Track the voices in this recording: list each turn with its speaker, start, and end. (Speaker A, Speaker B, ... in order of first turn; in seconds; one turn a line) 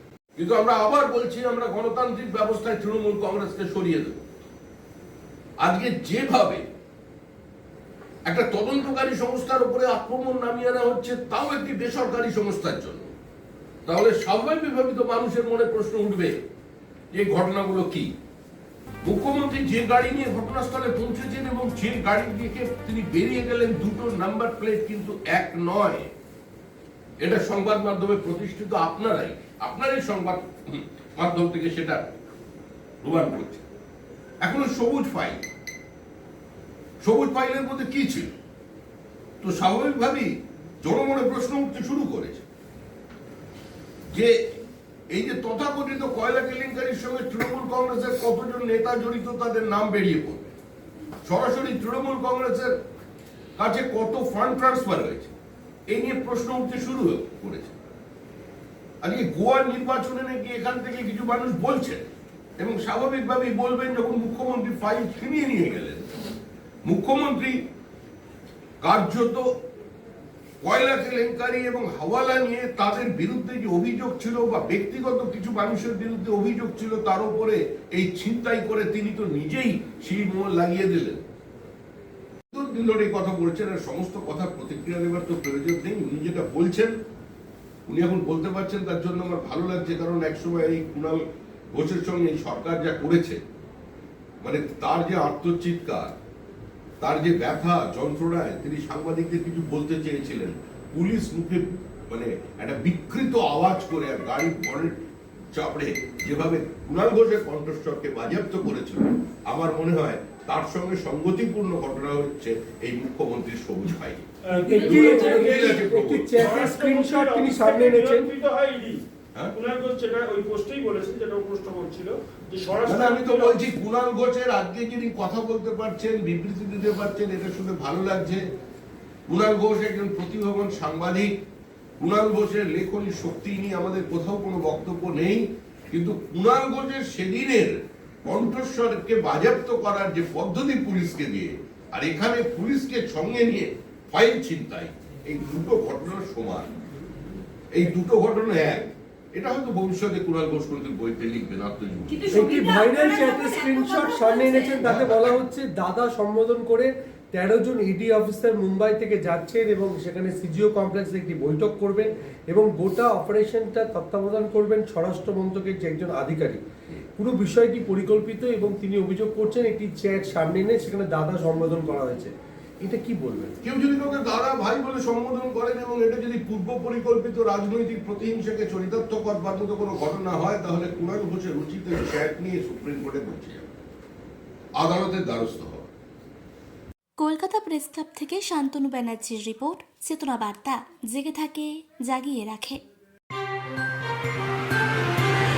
Speaker A: 0.4-4.2
Speaker A: 5.6-6.7
Speaker A: 8.3-13.1
Speaker A: 13.9-16.4
Speaker A: 17.1-18.1
Speaker A: 19.0-26.1
Speaker A: 27.2-32.1
Speaker A: 33.0-33.6
Speaker A: 34.4-35.4
Speaker A: 37.0-38.3
Speaker A: 39.4-42.5
Speaker A: 44.1-44.4
Speaker A: 45.1-50.5
Speaker A: 51.2-52.8
Speaker A: 53.6-55.3
Speaker A: 55.9-57.8
Speaker A: 59.0-62.1
Speaker A: 62.6-66.1
Speaker A: 66.9-67.6
Speaker A: 68.8-69.5
Speaker A: 70.6-81.2
Speaker A: 82.5-87.0
Speaker A: 87.9-93.4
Speaker A: 94.4-96.2
Speaker A: 97.0-116.7
Speaker B: 114.5-115.8
Speaker C: 114.5-118.3
Speaker B: 116.3-119.0
Speaker B: 119.5-123.6
Speaker A: 122.8-128.4
Speaker A: 129.3-131.3
Speaker A: 132.0-146.7
Speaker A: 147.7-152.4
Speaker D: 152.3-154.8
Speaker C: 152.3-166.6
Speaker B: 152.5-152.8
Speaker A: 154.8-155.4
Speaker C: 167.2-173.5
Speaker A: 173.6-183.7
Speaker A: 184.8-185.9
Speaker D: 187.2-192.8